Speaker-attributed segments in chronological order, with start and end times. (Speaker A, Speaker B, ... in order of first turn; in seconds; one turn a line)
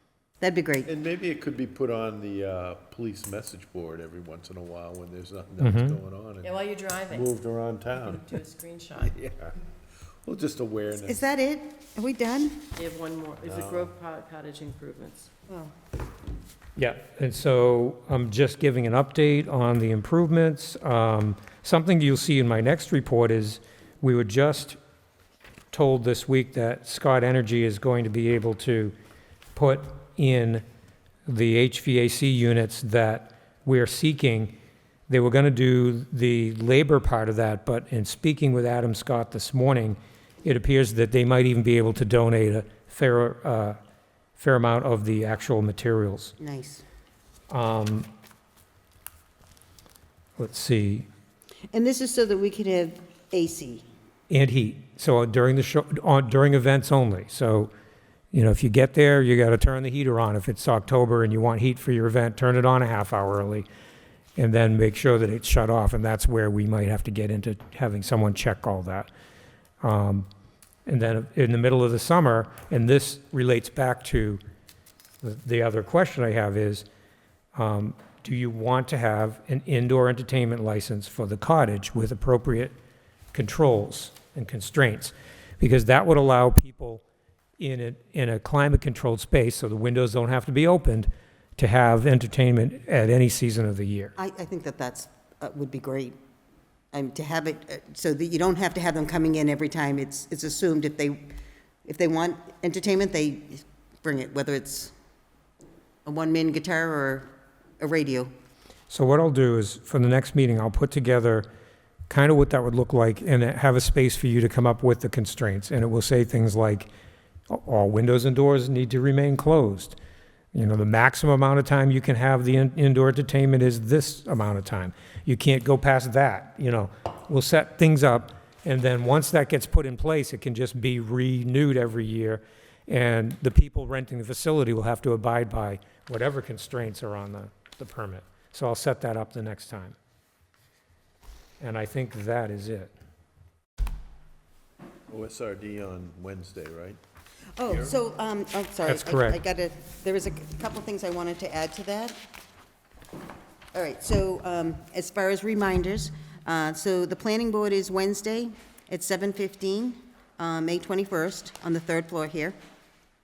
Speaker A: 0.4-0.9
Speaker B: 0.9-6.5
Speaker C: 5.6-6.0
Speaker D: 6.4-7.3
Speaker B: 7.1-8.4
Speaker D: 7.9-9.2
Speaker B: 9.1-9.6
Speaker B: 10.2-11.2
Speaker A: 11.0-12.7
Speaker D: 12.8-15.3
Speaker B: 13.4-13.9
Speaker C: 16.8-24.8
Speaker C: 25.7-28.9
Speaker C: 29.5-30.6
Speaker C: 31.3-34.5
Speaker C: 35.1-43.8
Speaker C: 44.4-46.3
Speaker A: 46.4-46.8
Speaker C: 47.5-48.1
Speaker C: 50.4-51.1
Speaker A: 51.7-53.9
Speaker C: 54.3-57.7
Speaker C: 58.3-63.7
Speaker C: 64.3-69.1
Speaker C: 69.8-70.3
Speaker C: 70.9-74.4
Speaker C: 75.2-76.8
Speaker C: 77.5-82.7
Speaker C: 83.3-87.0
Speaker C: 87.6-94.1
Speaker A: 94.2-96.2
Speaker A: 96.9-101.3
Speaker A: 101.8-104.9
Speaker A: 106.0-108.3
Speaker C: 108.9-111.5
Speaker C: 112.1-116.9
Speaker C: 117.5-120.0
Speaker C: 120.5-140.0
Speaker C: 141.6-142.9
Speaker B: 145.1-147.0
Speaker A: 147.6-152.2
Speaker B: 147.7-147.9
Speaker C: 148.8-149.4
Speaker A: 153.7-162.6